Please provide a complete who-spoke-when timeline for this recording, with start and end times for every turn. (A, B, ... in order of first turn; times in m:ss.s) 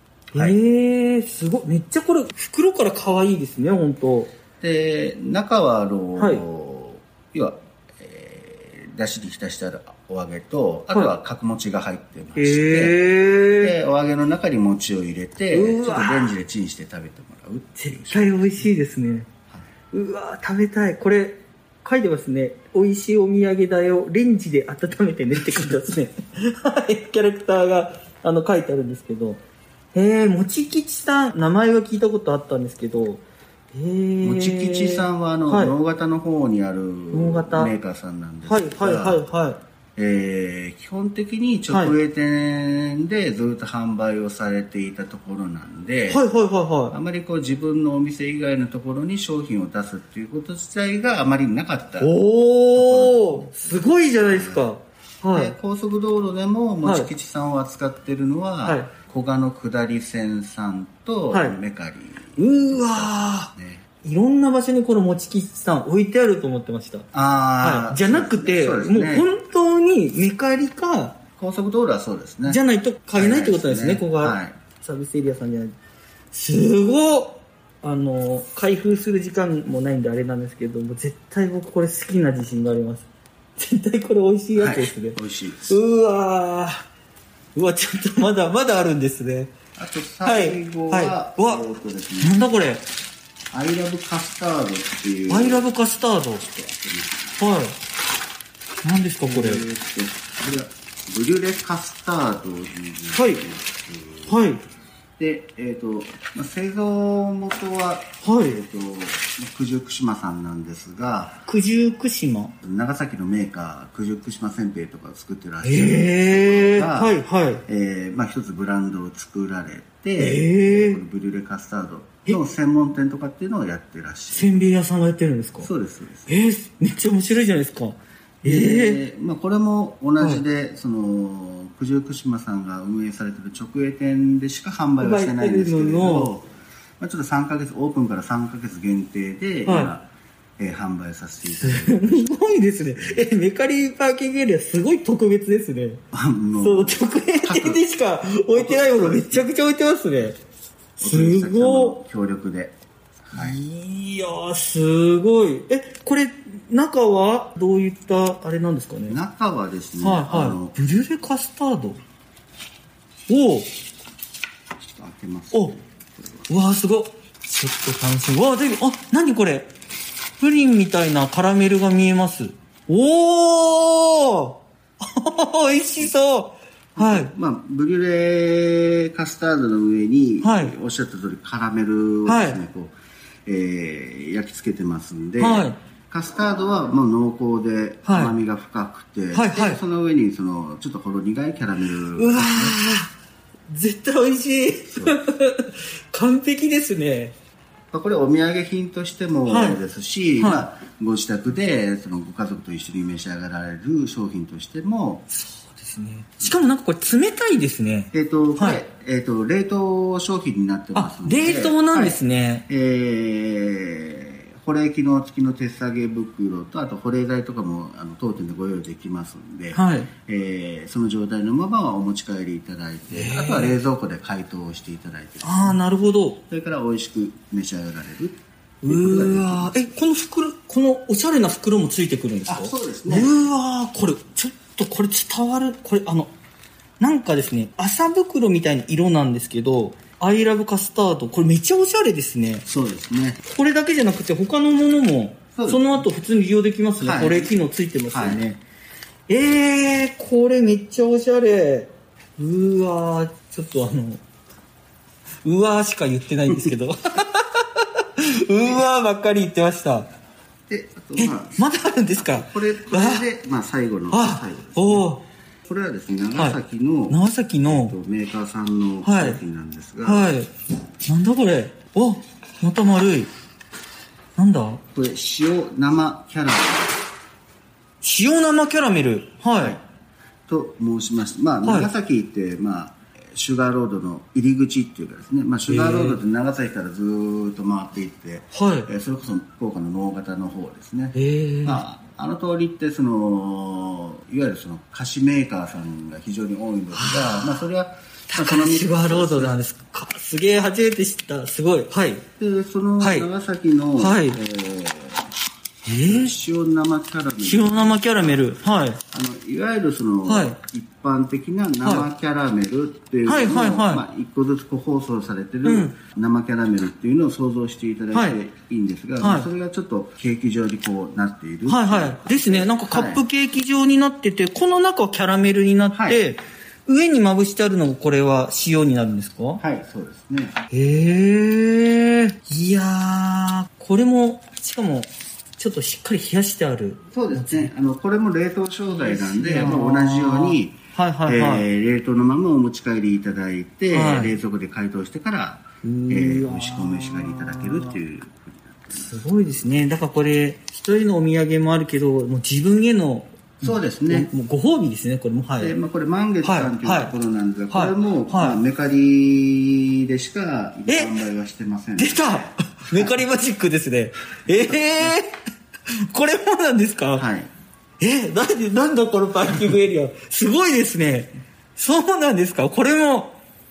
0:00.3-0:04.3 A
0:04.6-0:18.6 B
0:06.2-0:06.4 A
0:12.4-0:13.7 A
0:15.5-0:16.3 A
0:17.8-0:19.3 A
0:19.9-0:29.4 A
0:29.9-0:35.7 A
0:34.2-0:39.2 B
0:37.1-0:37.7 A
0:38.4-0:39.6 A
0:40.0-0:46.2 B
0:41.7-0:41.9 A
0:46.1-0:46.9 A
0:46.9-0:52.1 B
0:52.0-0:55.5 A
0:52.7-0:54.6 B
0:55.3-1:03.8 B
0:56.8-0:57.1 A
0:58.6-0:58.9 A
1:01.3-1:01.6 A
1:02.4-1:03.5 A
1:04.0-1:07.1 A
1:07.1-1:09.3 B
1:07.6-1:11.2 A
1:11.4-1:12.6 B
1:12.5-1:15.7 A
1:13.1-1:14.6 B
1:16.3-1:26.8 A
1:24.6-1:25.7 B
1:27.5-1:29.5 A
1:29.8-1:32.5 B
1:30.2-1:31.6 A
1:32.2-1:32.8 A
1:33.5-1:35.7 B
1:35.3-1:36.4 A
1:36.4-1:37.4 B
1:37.4-1:37.7 A
1:38.8-1:39.6 A
1:39.2-1:44.4 B
1:43.1-1:43.4 A
1:44.3-1:44.6 A
1:45.2-1:51.4 B
1:48.2-1:48.6 A
1:51.4-1:52.5 A
1:52.6-2:04.5 B
1:55.6-1:57.6 A
2:00.2-2:01.0 A
2:04.3-2:05.7 A
2:05.6-2:06.4 B
2:06.3-2:09.0 A
2:08.4-2:16.5 B
2:15.0-2:16.3 A
2:17.0-2:20.1 B
2:19.6-2:19.9 A
2:20.6-2:23.2 B
2:21.5-2:26.0 A
2:26.1-2:27.8 B
2:26.6-2:30.4 A
2:28.5-2:29.4 B
2:31.0-2:32.0 A
2:31.0-2:33.6 B
2:33.3-2:39.2 A
2:39.1-2:40.7 B
2:40.0-2:42.0 A
2:43.3-2:43.7 A
2:44.8-2:46.5 B
2:46.5-2:49.7 A
2:50.4-2:57.3 A
2:56.9-3:02.9 B
3:00.4-3:00.7 A
3:02.2-3:02.6 A
3:03.4-3:12.8 B
3:05.4-3:05.8 A
3:08.0-3:08.3 A
3:09.3-3:09.8 A
3:12.2-3:13.1 A
3:13.7-3:17.3 A
3:17.9-3:25.3 B
3:19.5-3:19.8 A
3:20.4-3:20.6 A
3:25.3-3:28.8 A
3:28.1-3:45.8 B
3:31.0-3:32.6 A
3:39.7-3:40.1 A
3:43.1-3:43.8 A
3:45.4-3:46.4 A
3:46.5-3:49.7 B
3:48.8-3:56.3 A
3:52.5-3:53.3 B
3:57.0-4:02.6 A
4:02.7-4:03.4 B
4:03.4-4:08.6 A
4:05.5-4:05.9 B
4:07.0-4:07.5 B
4:08.1-4:08.4 B
4:09.3-4:14.2 A
4:15.4-4:20.1 A
4:20.7-4:25.1 B
4:21.2-4:23.2 A
4:24.1-4:25.2 A
4:25.6-4:30.3 B
4:27.1-4:28.0 A
4:29.0-4:29.4 A
4:30.0-4:30.5 A
4:31.0-4:33.3 A
4:34.4-4:34.8 A
4:34.9-4:37.0 B
4:38.0-4:39.8 A
4:40.5-4:59.6 B
4:41.6-4:41.9 A
4:45.7-4:46.2 A
4:48.5-4:48.9 A
4:51.1-4:51.8 A
4:56.9-4:57.6 A
4:58.3-5:02.2 A
5:02.4-5:05.3 B
5:03.0-5:03.3 A
5:04.0-5:04.4 A
5:05.8-5:06.3 A
5:06.0-5:08.4 B
5:07.4-5:09.0 A
5:09.1-5:23.2 B
5:10.2-5:10.6 A
5:13.2-5:14.0 A
5:15.6-5:15.9 A
5:19.2-5:19.5 A
5:21.7-5:29.6 A
5:25.9-5:26.2 B
5:29.6-5:30.6 B
5:30.7-5:37.7 A
5:37.1-5:49.7 B
5:38.9-5:41.7 A
5:43.9-5:44.4 A
5:45.8-5:48.0 A
5:48.9-5:55.8 A
5:53.6-5:54.3 B
5:55.6-6:03.2 B
5:56.4-5:57.1 A
5:57.7-5:58.6 A
6:00.9-6:01.2 A
6:02.0-6:05.4 A
6:04.5-6:05.2 B
6:05.9-6:07.2 A
6:07.2-6:07.5 B
6:08.0-6:13.4 A